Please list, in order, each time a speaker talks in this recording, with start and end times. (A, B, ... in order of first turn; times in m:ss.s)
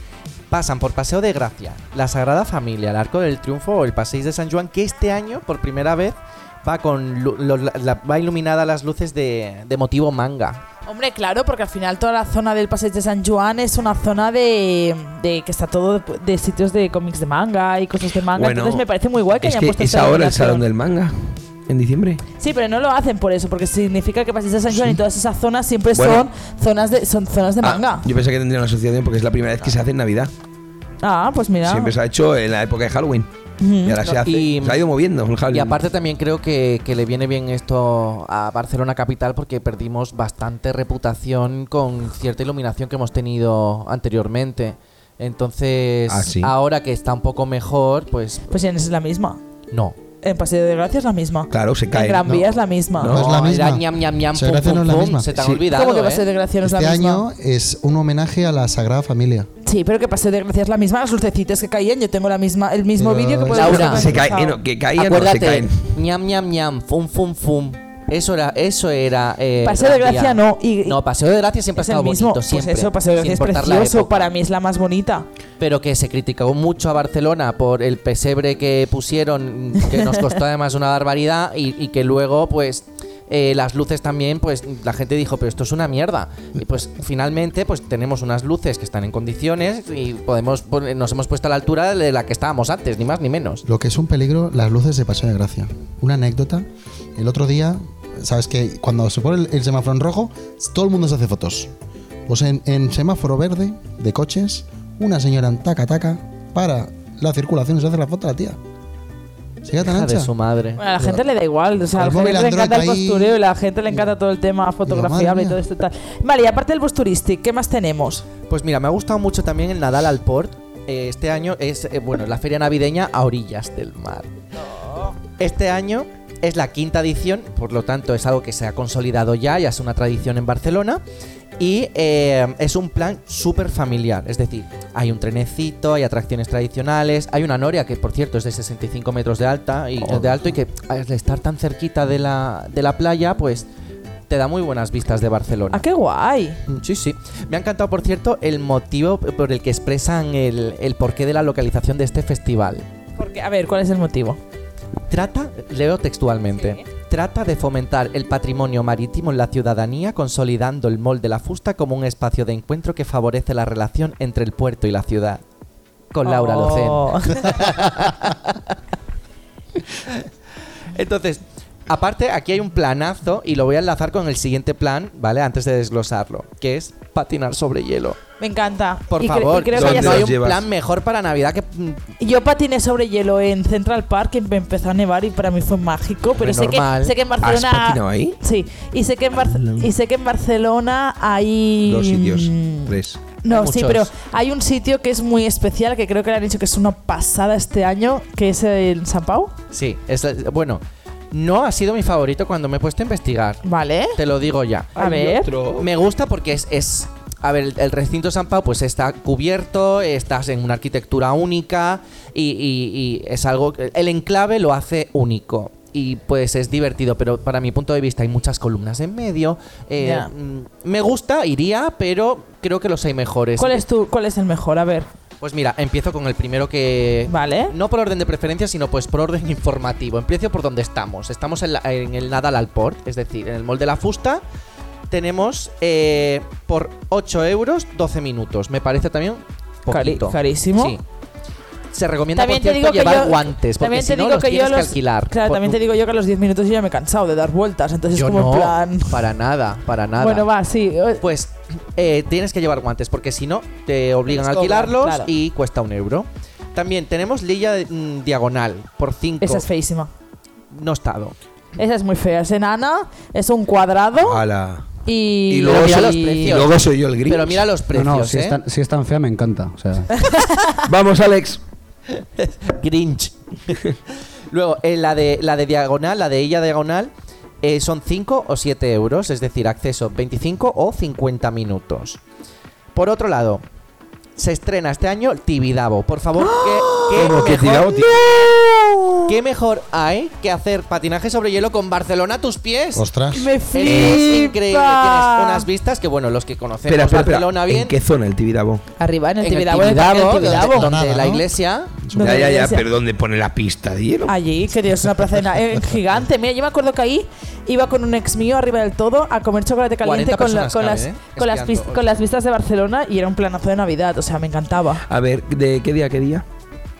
0:00.5-0:10.6 A
0:10.9-0:20.6 B
0:18.4-0:18.9 C
0:19.4-0:22.2 C
0:22.4-0:28.1 B
0:24.7-0:25.0 C
0:26.0-0:26.3 C
0:27.6-0:30.3 C
0:31.0-0:31.9 B
0:31.6-0:33.3 C
0:33.6-0:34.0 B
0:33.8-0:35.8 C
0:34.0-0:34.8 A
0:35.5-0:48.5 A
0:46.1-0:46.5 C
0:48.5-0:49.4 B
0:49.7-0:50.0 A
0:50.2-0:53.1 B
0:51.5-0:52.4 C
0:53.0-0:53.3 C
0:53.0-0:55.3 D
0:53.1-0:56.3 A
0:55.3-0:55.6 C
0:55.7-0:57.3 B
0:56.6-0:59.5 D
0:59.6-1:04.6 B
1:03.0-1:03.9 D
1:03.5-1:04.2 A
1:03.7-1:05.9 C
1:05.0-1:14.3 A
1:09.6-1:11.0 B
1:11.8-1:15.3 B
1:15.6-1:33.6 A
1:33.6-1:41.7 D
1:42.3-1:48.6 D
1:49.6-1:50.3 D
1:49.8-1:50.8 A
1:50.8-1:58.2 B
1:51.0-1:51.2 D
1:51.9-1:53.4 D
1:54.9-1:55.6 D
1:58.5-2:04.3 A
2:04.7-2:05.1 B
2:05.4-2:11.0 A
2:11.6-2:23.7 A
2:24.3-2:25.8 A
2:25.7-2:26.6 B
2:26.7-2:32.9 A
2:33.2-2:34.4 B
2:35.1-2:45.4 A
2:46.1-2:48.8 A
2:46.2-2:47.8 B
2:49.9-2:50.3 A
2:50.9-2:58.2 A
2:58.4-3:00.3 B
2:59.1-3:02.1 A
2:59.7-3:00.6 C
3:02.2-3:19.5 B
3:06.4-3:07.1 A
3:07.4-3:08.4 C
3:09.5-3:09.8 C
3:11.9-3:13.2 C
3:13.5-3:14.1 A
3:19.7-3:23.6 A
3:23.6-3:24.2 B
3:24.2-3:25.2 A
3:25.0-3:25.5 B
3:25.0-3:25.9 C
3:25.8-3:43.8 A
3:40.0-3:40.3 B
3:43.6-3:45.1 B
3:45.4-3:54.4 A
3:47.3-3:47.7 B
3:55.1-4:01.0 A
3:59.9-4:01.0 B
4:01.9-4:05.8 A
4:02.3-4:09.3 B
4:08.1-4:10.5 A
4:10.2-4:11.2 B
4:11.2-4:19.7 A
4:14.3-4:15.3 B
4:19.4-4:20.1 B
4:20.7-4:21.4 A
4:21.8-4:24.4 B
4:24.2-4:24.9 C
4:25.0-4:26.6 B
4:25.5-4:27.7 C
4:25.6-4:28.6 A
4:27.9-4:30.1 E
4:30.1-4:30.8 B
4:30.8-4:31.6 C
4:32.2-4:33.8 A
4:34.5-4:42.2 A
4:42.9-4:43.6 A
4:44.4-4:48.1 A
4:46.5-4:49.3 C
4:49.3-4:53.1 A
4:53.0-4:53.5 D
4:53.3-4:55.7 B
4:53.7-4:57.9 A
4:53.8-4:54.3 C
4:56.9-4:58.8 C
4:59.0-5:01.0 B
4:59.4-5:02.0 A
5:00.3-5:02.6 D
5:02.1-5:02.8 B
5:02.2-5:04.3 C
5:04.3-5:15.0 B
5:10.0-5:12.1 A
5:15.1-5:16.4 C